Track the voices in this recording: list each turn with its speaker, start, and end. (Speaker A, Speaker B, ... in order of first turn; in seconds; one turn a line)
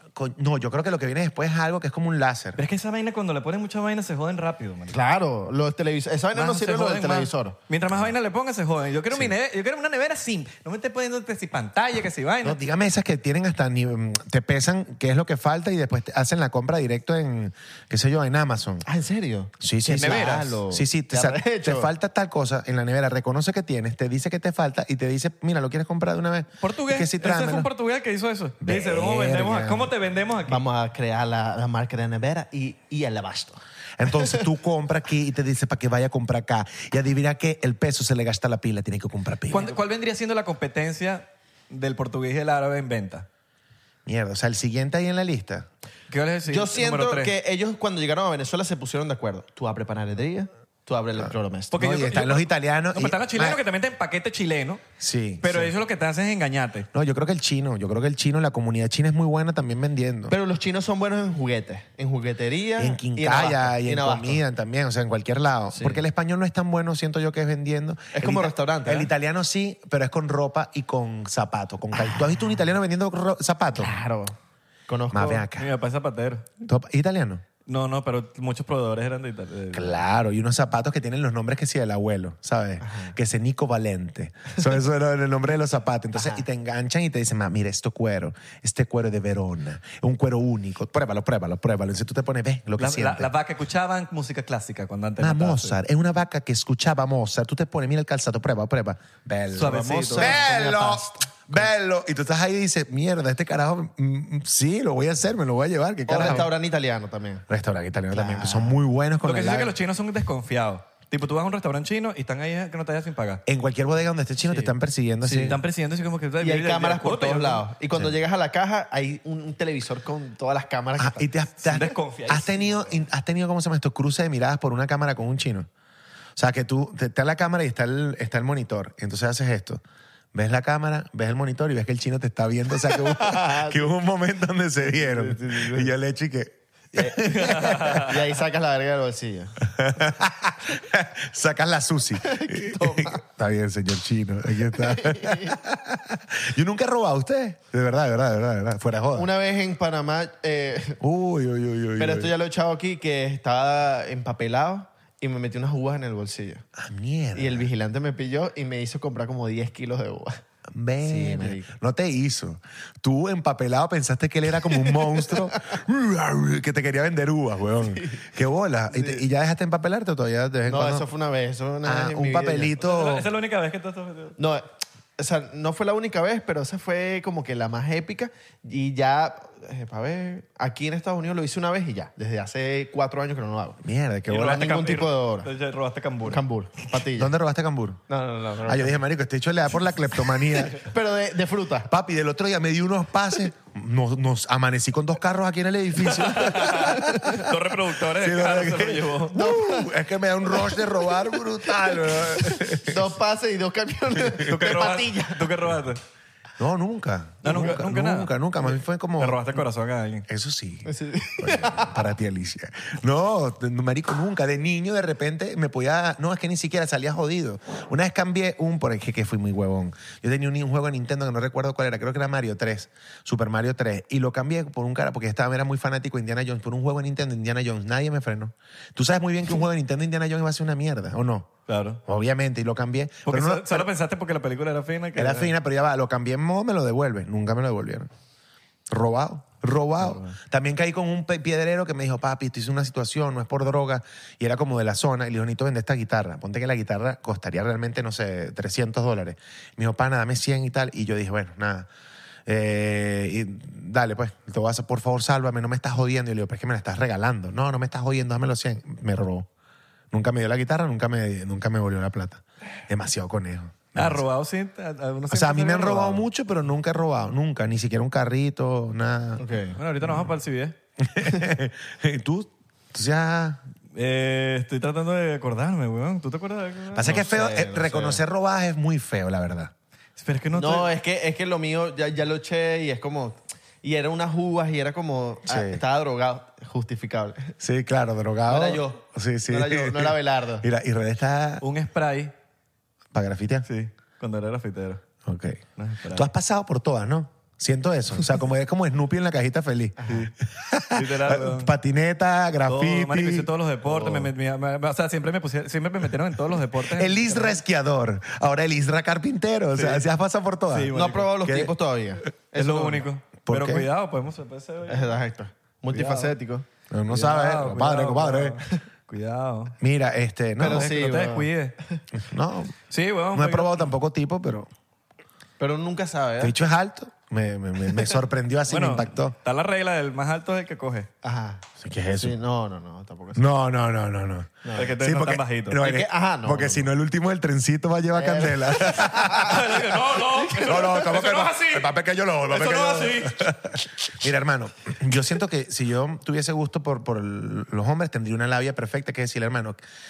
Speaker A: 0.1-2.6
Speaker B: 2.5-5.0
Speaker C: 4.9-7.5
Speaker B: 6.3-12.6
Speaker A: 12.4-18.9
Speaker C: 18.8-21.9
Speaker A: 19.6-27.7
Speaker B: 19.9-20.6
Speaker B: 26.6-30.6
Speaker A: 28.6-29.9
Speaker C: 30.5-33.6
Speaker A: 34.0-39.8
Speaker B: 39.5-43.2
Speaker A: 44.0-45.7
Speaker B: 46.1-47.3
Speaker C: 46.5-51.8
Speaker A: 51.2-53.6
Speaker B: 51.7-54.8
Speaker A: 55.0-55.7
Speaker B: 55.4-56.9
Speaker A: 56.9-60.4
Speaker C: 60.3-64.4
Speaker A: 62.8-73.9
Speaker C: 65.7-66.0
Speaker C: 68.1-69.1
Speaker C: 71.9-72.5
Speaker C: 73.8-74.3
Speaker C: 74.9-75.5
Speaker A: 75.1-75.7
Speaker B: 75.6-76.5
Speaker A: 76.6-77.4
Speaker B: 77.7-80.0
Speaker A: 79.7-93.3
Speaker C: 82.8-83.1
Speaker C: 86.2-86.4
Speaker B: 92.8-95.8
Speaker A: 95.2-106.5
Speaker B: 99.5-100.4
Speaker C: 99.7-101.7
Speaker C: 106.1-107.4
Speaker B: 106.2-106.4
Speaker A: 107.5-109.8
Speaker C: 108.1-108.8
Speaker B: 109.2-113.4
Speaker A: 113.5-115.6
Speaker C: 115.2-115.6
Speaker B: 115.4-117.6
Speaker C: 116.4-121.2
Speaker A: 121.0-125.7
Speaker B: 121.6-123.0
Speaker A: 126.3-129.8
Speaker A: 130.3-138.0
Speaker C: 133.0-133.9
Speaker C: 134.9-135.9
Speaker C: 136.9-139.6
Speaker B: 137.3-138.1
Speaker A: 139.6-149.3
Speaker C: 142.2-143.2
Speaker C: 144.7-145.6
Speaker C: 149.1-151.0
Speaker A: 151.0-152.3
Speaker C: 152.0-156.6
Speaker A: 156.8-157.7
Speaker C: 157.3-160.4
Speaker A: 160.7-171.1
Speaker C: 161.0-161.7
Speaker C: 164.7-165.5
Speaker C: 167.9-168.2
Speaker C: 168.9-169.2
Speaker C: 170.7-172.8
Speaker A: 171.8-173.3
Speaker B: 172.8-174.4
Speaker C: 174.4-183.8
Speaker A: 183.8-184.6
Speaker B: 184.3-186.4
Speaker C: 184.3-185.5
Speaker C: 186.2-187.3
Speaker A: 187.1-188.0
Speaker C: 188.1-188.9
Speaker A: 188.6-190.8
Speaker C: 190.6-191.9
Speaker A: 191.9-197.5
Speaker B: 196.1-199.4
Speaker A: 198.1-203.1
Speaker C: 199.3-199.9
Speaker C: 200.5-201.1
Speaker C: 201.7-205.5
Speaker B: 204.4-206.0
Speaker A: 206.6-209.6
Speaker B: 207.4-208.3
Speaker B: 209.2-210.2
Speaker A: 210.3-231.5
Speaker C: 210.8-212.0
Speaker B: 231.7-232.0
Speaker A: 232.1-233.9
Speaker B: 233.2-235.5
Speaker A: 235.2-238.1
Speaker A: 238.9-251.9
Speaker B: 240.0-240.3
Speaker A: 252.4-259.5
Speaker A: 260.1-264.2
Speaker B: 263.9-266.2
Speaker A: 265.3-269.4
Speaker C: 269.4-269.8
Speaker B: 269.8-270.8
Speaker A: 270.0-270.3
Speaker A: 271.0-273.6
Speaker B: 273.9-277.2
Speaker C: 276.9-278.2
Speaker A: 276.9-279.7
Speaker B: 280.2-280.9
Speaker C: 280.5-287.5
Speaker A: 285.4-285.8
Speaker A: 287.6-291.6
Speaker C: 288.4-290.6
Speaker B: 291.6-292.3
Speaker A: 293.1-293.7
Speaker B: 293.6-295.0
Speaker A: 295.2-303.5
Speaker B: 295.8-296.3
Speaker C: 300.0-300.3
Speaker B: 300.9-301.7
Speaker B: 302.7-307.6
Speaker C: 303.9-304.2
Speaker A: 306.9-311.7
Speaker B: 309.8-310.0
Speaker B: 310.7-311.6
Speaker C: 310.9-313.1
Speaker B: 312.6-315.2
Speaker A: 313.4-313.9
Speaker C: 314.9-316.6
Speaker B: 315.9-316.3
Speaker A: 316.9-318.6
Speaker B: 317.1-319.7
Speaker A: 319.8-321.0
Speaker C: 320.6-322.0
Speaker B: 320.6-321.8
Speaker A: 322.1-322.8
Speaker B: 322.9-323.9
Speaker A: 323.3-324.7
Speaker C: 325.6-326.5
Speaker A: 326.4-329.3
Speaker B: 328.7-331.1
Speaker C: 331.2-333.5
Speaker A: 331.8-332.4
Speaker A: 333.3-339.6
Speaker C: 334.6-334.9
Speaker B: 334.7-335.8
Speaker C: 335.7-336.9
Speaker C: 338.1-339.6
Speaker B: 339.2-341.9
Speaker C: 340.1-340.9
Speaker A: 340.6-349.8
Speaker B: 342.5-343.5